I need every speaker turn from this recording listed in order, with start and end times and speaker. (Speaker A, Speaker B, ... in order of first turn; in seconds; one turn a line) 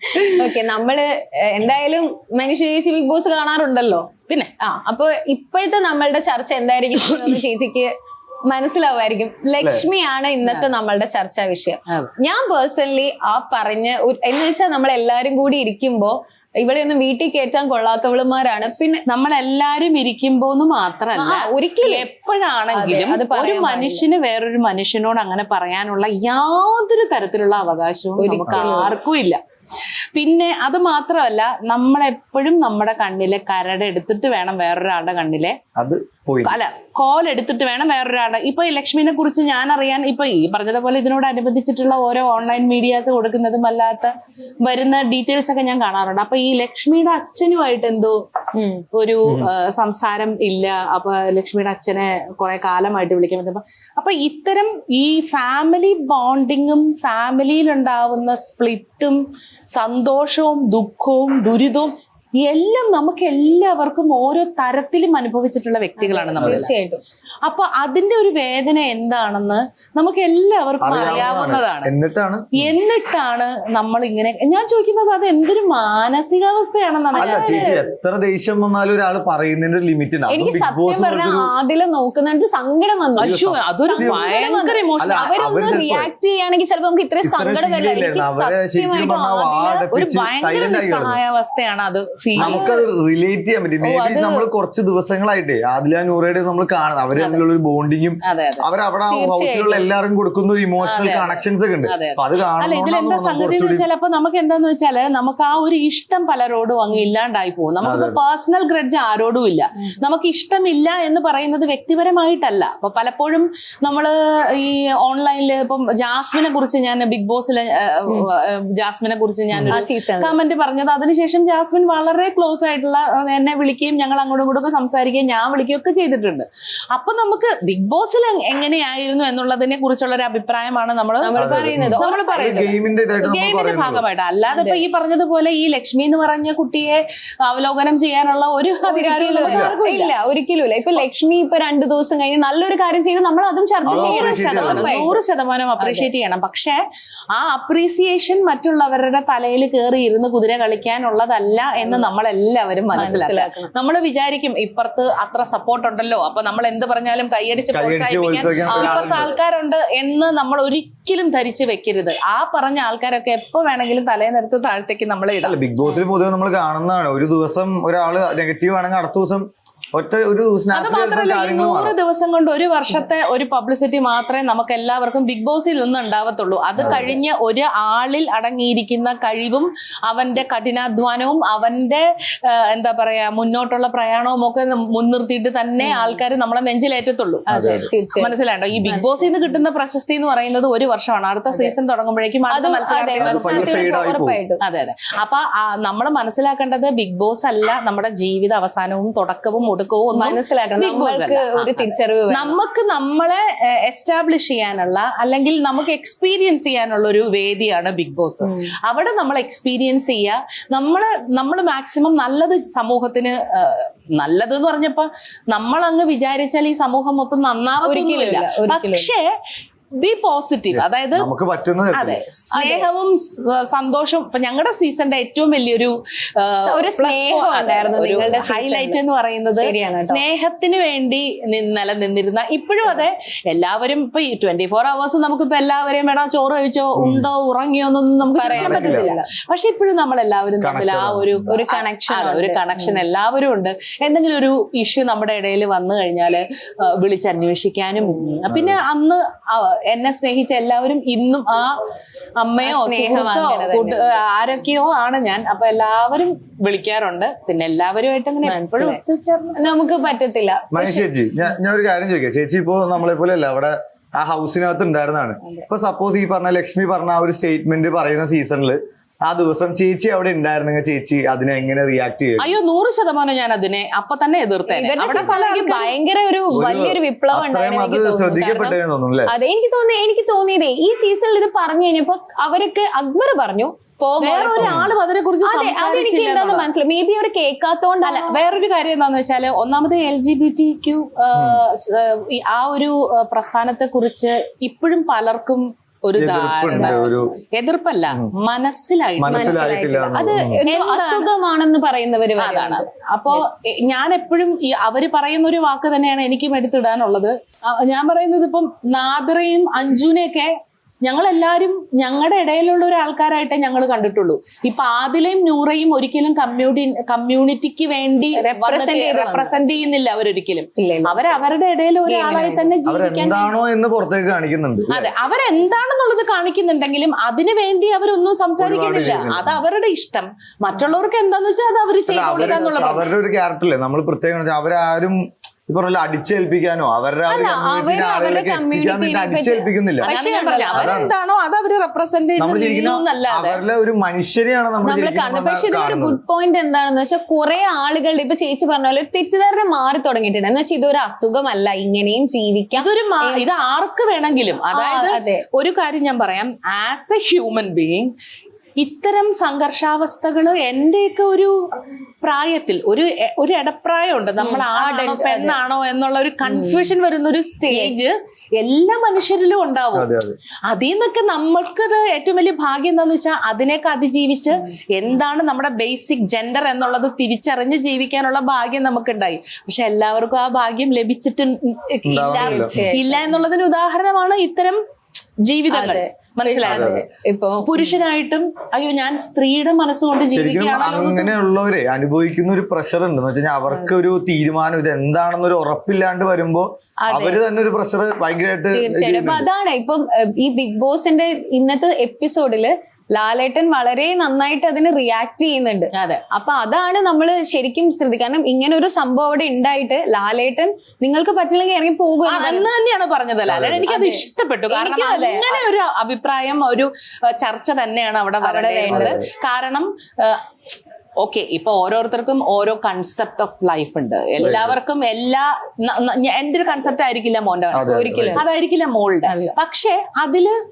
Speaker A: 0.2-7.9
Speaker B: 7.0-7.4
Speaker A: 8.5-19.0
Speaker C: 9.6-9.9
Speaker B: 10.4-10.7
Speaker B: 19.1-29.4
Speaker A: 21.1-22.1
Speaker A: 22.7-24.0
Speaker A: 28.2-28.9
Speaker C: 28.4-28.7
Speaker B: 30.1-35.6
Speaker C: 35.8-36.5
Speaker B: 36.4-48.2
Speaker A: 48.5-48.8
Speaker B: 48.9-59.2
Speaker C: 49.2-49.5
Speaker B: 59.7-61.9
Speaker B: 62.4-66.7
Speaker A: 66.0-67.0
Speaker C: 66.3-66.7
Speaker B: 67.4-71.9
Speaker C: 70.8-72.7
Speaker B: 72.5-77.7
Speaker A: 77.1-77.8
Speaker C: 77.2-81.5
Speaker A: 80.3-89.8
Speaker B: 83.2-85.3
Speaker C: 83.2-84.4
Speaker C: 85.0-86.1
Speaker C: 87.2-91.2
Speaker B: 89.9-92.6
Speaker A: 92.3-92.9
Speaker C: 92.4-103.8
Speaker A: 93.8-94.4
Speaker B: 98.2-98.7
Speaker A: 99.1-99.8
Speaker B: 100.8-131.3
Speaker C: 107.8-108.2
Speaker C: 119.5-119.8
Speaker A: 119.7-120.3
Speaker A: 131.2-132.3
Speaker C: 131.4-134.0
Speaker B: 131.9-140.1
Speaker A: 134.5-134.8
Speaker A: 138.8-145.2
Speaker C: 139.4-139.7
Speaker C: 143.8-144.9
Speaker B: 143.8-146.8
Speaker A: 145.8-146.1
Speaker B: 147.3-165.6
Speaker A: 151.8-152.1
Speaker A: 152.9-153.7
Speaker C: 157.7-159.3
Speaker A: 158.7-159.2
Speaker C: 165.4-171.9
Speaker B: 170.7-187.5
Speaker C: 176.8-177.2
Speaker A: 185.8-186.2
Speaker A: 187.5-188.3
Speaker C: 187.5-187.9
Speaker B: 188.1-193.9
Speaker A: 188.8-189.6
Speaker A: 191.5-191.7
Speaker A: 192.5-194.6
Speaker C: 193.2-194.4
Speaker B: 194.6-219.2
Speaker A: 200.2-202.5
Speaker A: 208.4-208.7
Speaker A: 217.8-219.1
Speaker B: 220.0-221.3
Speaker C: 220.7-222.2
Speaker B: 221.9-251.7
Speaker A: 222.5-222.9
Speaker A: 226.6-229.0
Speaker A: 229.5-230.2
Speaker C: 237.0-237.3
Speaker A: 238.3-239.2
Speaker C: 238.5-239.1
Speaker C: 240.6-241.5
Speaker A: 241.5-243.0
Speaker C: 248.5-248.8
Speaker B: 252.4-259.6
Speaker A: 252.6-254.1
Speaker A: 258.4-259.0
Speaker A: 259.6-261.1
Speaker C: 260.7-272.5
Speaker B: 272.4-275.9
Speaker A: 274.7-278.8
Speaker C: 276.5-279.3
Speaker A: 279.3-284.8
Speaker B: 284.2-286.7
Speaker C: 284.6-284.9
Speaker A: 285.4-288.4
Speaker B: 288.0-299.7
Speaker C: 291.3-291.6
Speaker C: 296.2-297.3
Speaker A: 296.7-297.1
Speaker C: 299.2-300.6
Speaker A: 299.3-303.5
Speaker B: 300.6-301.3
Speaker B: 302.4-310.5
Speaker B: 311.0-323.5
Speaker A: 318.3-319.6
Speaker A: 320.8-321.3
Speaker A: 322.0-322.7
Speaker C: 322.9-325.1
Speaker B: 324.9-333.1
Speaker C: 328.6-329.6
Speaker C: 332.1-340.1
Speaker A: 332.3-333.0
Speaker A: 337.3-341.1
Speaker B: 340.1-343.6
Speaker C: 340.7-341.1
Speaker C: 342.4-346.2
Speaker A: 344.8-353.4
Speaker B: 352.8-358.1
Speaker A: 354.7-355.4
Speaker B: 358.8-361.5
Speaker B: 362.2-370.1
Speaker A: 364.4-365.6
Speaker A: 366.4-366.9
Speaker A: 367.7-368.0
Speaker C: 369.9-370.4
Speaker B: 370.7-384.8
Speaker C: 382.0-382.8
Speaker A: 382.3-383.2
Speaker B: 385.5-387.0
Speaker A: 385.7-387.9
Speaker C: 386.6-387.0
Speaker B: 387.6-391.3
Speaker C: 390.3-399.5
Speaker A: 393.7-393.9
Speaker A: 397.0-397.4
Speaker A: 398.7-412.7
Speaker B: 405.9-406.2
Speaker B: 412.2-420.4
Speaker C: 413.4-413.9
Speaker A: 413.9-415.6
Speaker A: 418.4-419.2
Speaker C: 418.9-419.3
Speaker B: 421.2-430.5
Speaker C: 424.4-424.8
Speaker C: 427.7-428.4
Speaker A: 427.8-428.4
Speaker A: 429.2-429.6